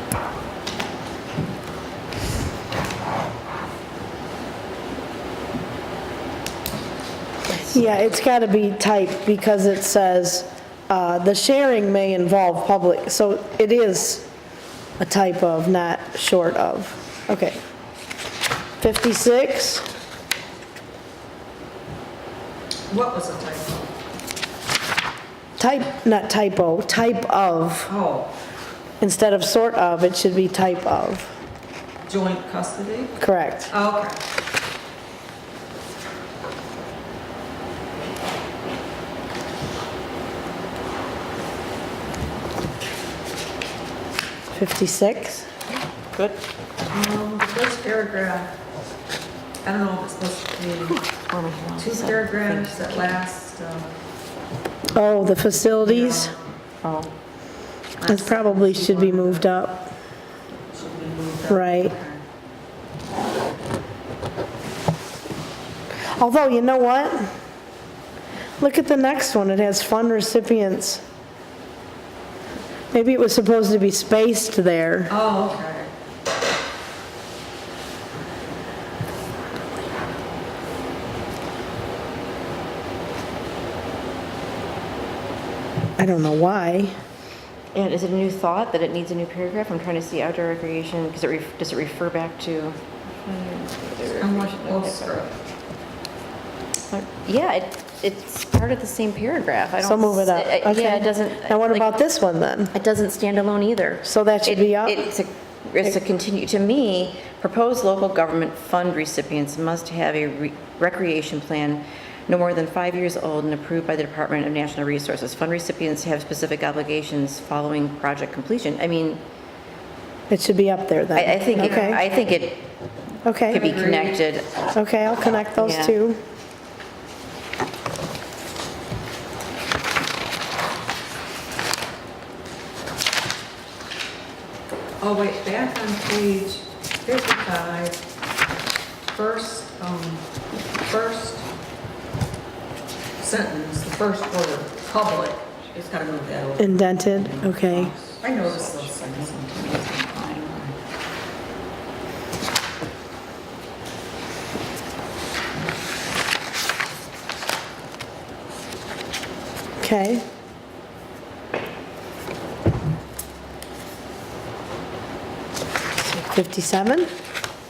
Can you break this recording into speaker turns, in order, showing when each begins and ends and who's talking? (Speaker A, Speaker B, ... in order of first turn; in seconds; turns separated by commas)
Speaker A: 7.6-14.3, Speaker A: 15.0-17.6, Speaker A: 18.8-19.9, Speaker B: 22.9-23.9, Speaker A: 25.6-27.9, Speaker B: 27.9-28.3, Speaker A: 29.0-31.3, Speaker B: 32.1-33.2, Speaker A: 33.2-33.7, Speaker B: 33.7-34.1, Speaker A: 44.5-45.5, Speaker C: 46.1-46.4, Speaker B: 46.9-48.5, Speaker B: 49.6-51.0, Speaker C: 50.8-53.2, Speaker B: 51.8-53.9, Speaker A: 54.9-56.3, Speaker B: 55.6-56.4, Speaker C: 56.8-57.1, Speaker B: 58.0-59.5, Speaker A: 58.0-59.9, Speaker B: 60.7-62.2, Speaker A: 61.5-61.9, Speaker A: 66.2-67.3, Speaker A: 68.6-71.0, Speaker A: 72.9-75.1, Speaker B: 75.1-75.9, Speaker A: 86.0-86.9, Speaker C: 87.7-95.2, Speaker B: 94.1-95.4, Speaker C: 96.9-102.0, Speaker A: 99.8-102.7, Speaker C: 102.7-119.2, Speaker A: 104.0-105.1, Speaker A: 120.3-122.0, Speaker C: 121.1-122.7, Speaker A: 123.2-123.7, Speaker B: 123.5-124.2, Speaker C: 123.5-124.5, Speaker A: 124.7-126.2, Speaker C: 125.6-126.0, Speaker B: 135.0-138.0, Speaker B: 139.1-140.2, Speaker B: 140.8-141.4, Speaker B: 143.2-150.8, Speaker A: 146.6-147.9, Speaker C: 148.2-149.8, Speaker A: 159.8-160.2, Speaker A: 166.0-167.1